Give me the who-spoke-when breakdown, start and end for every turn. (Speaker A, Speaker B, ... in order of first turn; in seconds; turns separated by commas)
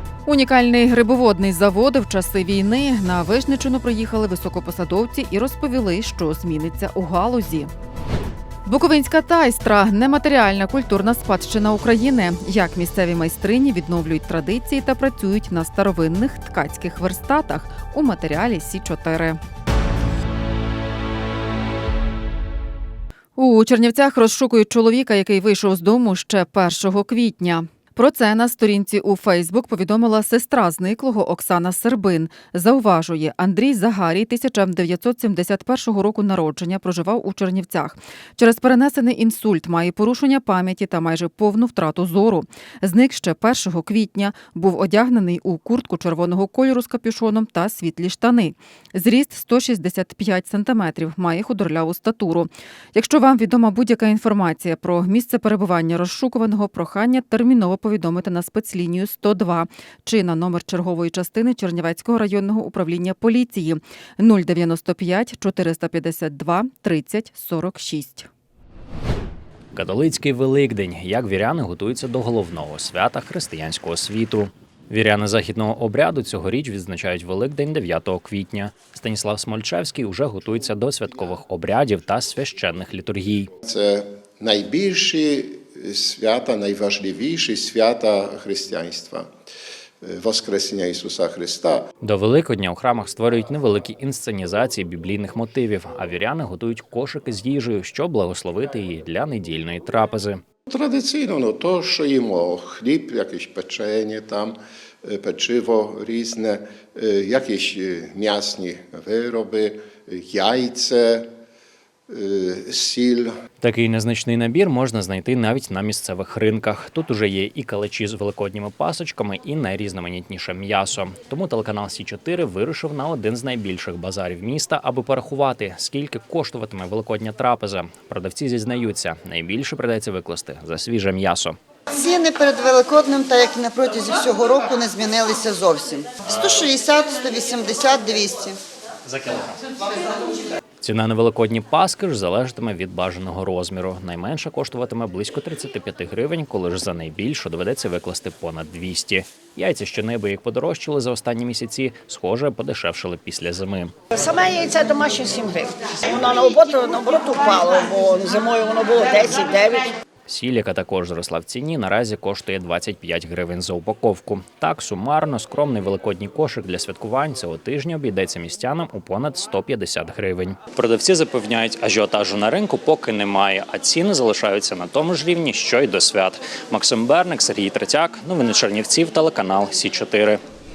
Speaker A: 0.2-7.7, Speaker A: 8.7-19.4, Speaker A: 23.4-68.3, Speaker B: 69.7-83.5, Speaker C: 83.6-89.3, Speaker C: 90.0-91.8, Speaker B: 92.0-100.4, Speaker C: 100.7-111.3, Speaker C: 112.1-113.3, Speaker B: 113.6-131.6, Speaker D: 131.9-138.6, Speaker B: 140.8-154.0, Speaker E: 154.2-159.9, Speaker B: 160.3-180.4